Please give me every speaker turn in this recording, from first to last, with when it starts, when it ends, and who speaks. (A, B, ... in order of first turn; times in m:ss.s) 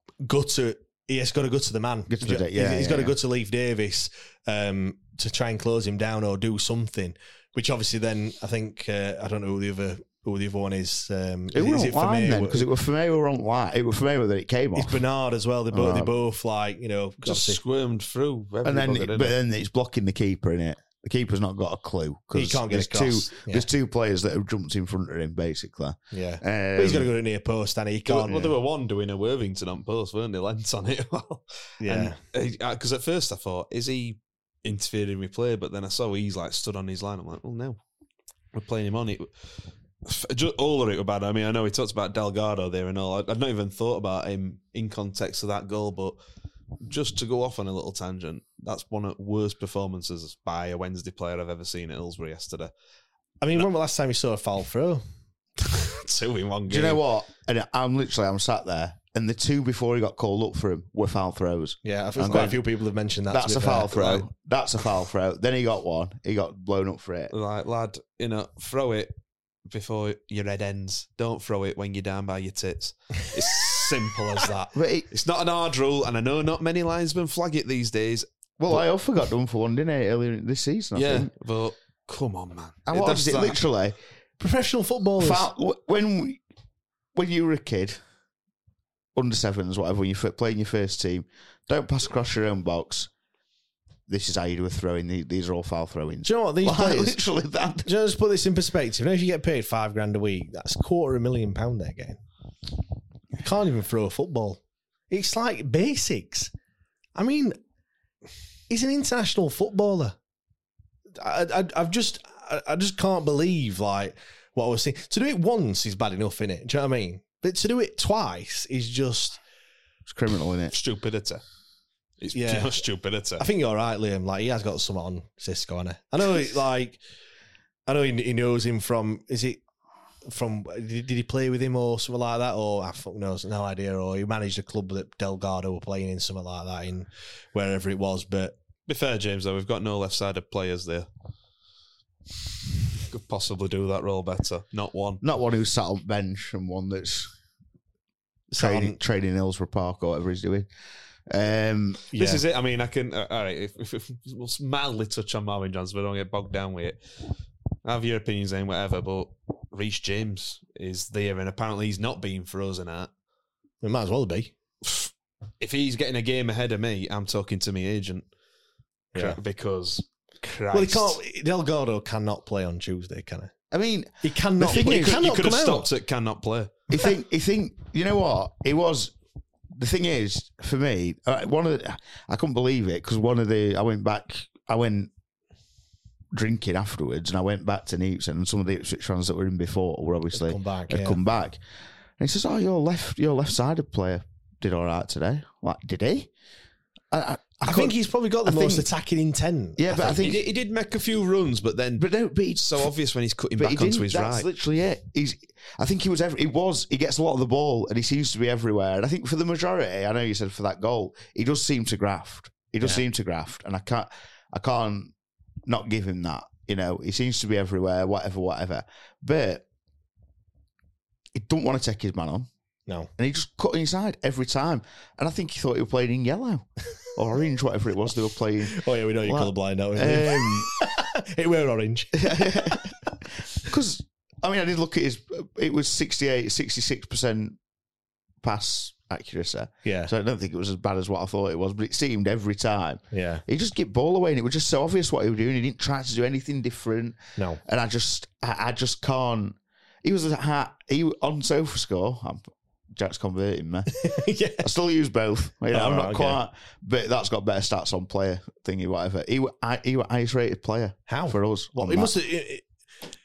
0:00.2-0:12.7 A
0:02.1-0:03.1 B
0:11.5-0:15.0 B
0:14.8-0:17.6 A
0:15.7-0:16.1 B
0:17.2-0:19.4 C
0:18.6-0:27.1 B
0:22.3-0:23.6 A
0:26.1-0:28.5 A
0:28.1-0:37.8 C
0:31.8-0:32.2 A
0:38.5-0:39.4 C
0:40.0-0:46.2 C
0:46.8-0:52.7 C
0:53.4-0:55.0 A
0:55.6-0:57.0 C
0:56.7-1:02.6 B
1:01.8-1:04.2 A
1:03.3-1:07.3 B
1:07.3-1:09.1 C
1:09.6-1:18.9 C
1:14.7-1:15.1 B
1:18.6-1:21.3 B
1:21.0-1:23.6 C
1:22.9-1:24.0 B
1:24.4-1:25.5 A
1:25.2-1:26.4 B
1:27.1-1:28.0 B
1:29.1-1:33.1 B
1:34.1-1:37.9 B
1:36.2-1:37.2 A
1:37.8-1:42.2 A
1:43.4-1:46.5 A
1:47.1-1:47.6 A
1:48.7-1:50.2 A
1:51.1-1:59.4 A
2:00.1-2:00.8 B
2:00.7-2:01.4 C
2:02.2-2:03.4 C
2:02.3-2:02.8 A
2:03.4-2:07.0 A
2:07.9-2:09.6 A
2:10.2-2:18.5 A
2:18.9-2:21.1 C
2:23.1-2:25.2 C
2:25.2-2:27.3 B
2:28.5-2:29.0 A
2:28.6-2:30.7 B
2:31.3-2:32.0 B
2:32.1-2:32.4 A
2:32.2-2:37.0 C
2:37.8-2:43.1 C
2:43.8-2:44.5 A
2:44.8-2:48.2 C
2:49.1-2:51.2 C
2:50.7-2:53.5 A
2:53.7-2:55.2 B
2:54.2-2:55.9 A
2:54.8-2:56.7 C
2:56.9-2:59.1 B
2:59.7-3:05.1 B
3:06.3-3:11.6 B
3:10.3-3:11.2 A
3:12.2-3:16.3 B
3:17.1-3:18.9 B
3:17.6-3:20.3 A
3:19.8-3:20.4 B
3:20.1-3:24.5 C
3:22.0-3:22.9 B
3:23.6-3:35.1 B
3:35.6-3:39.6 B
3:41.3-3:42.5 B
3:43.2-3:50.7 B
3:48.7-3:52.9 A
3:52.2-3:52.9 B
3:53.6-3:57.6 B
3:58.4-4:22.1 B
3:59.8-4:00.1 A
4:03.1-4:03.4 A
4:14.0-4:14.7 A
4:15.7-4:16.4 A
4:21.1-4:22.6 A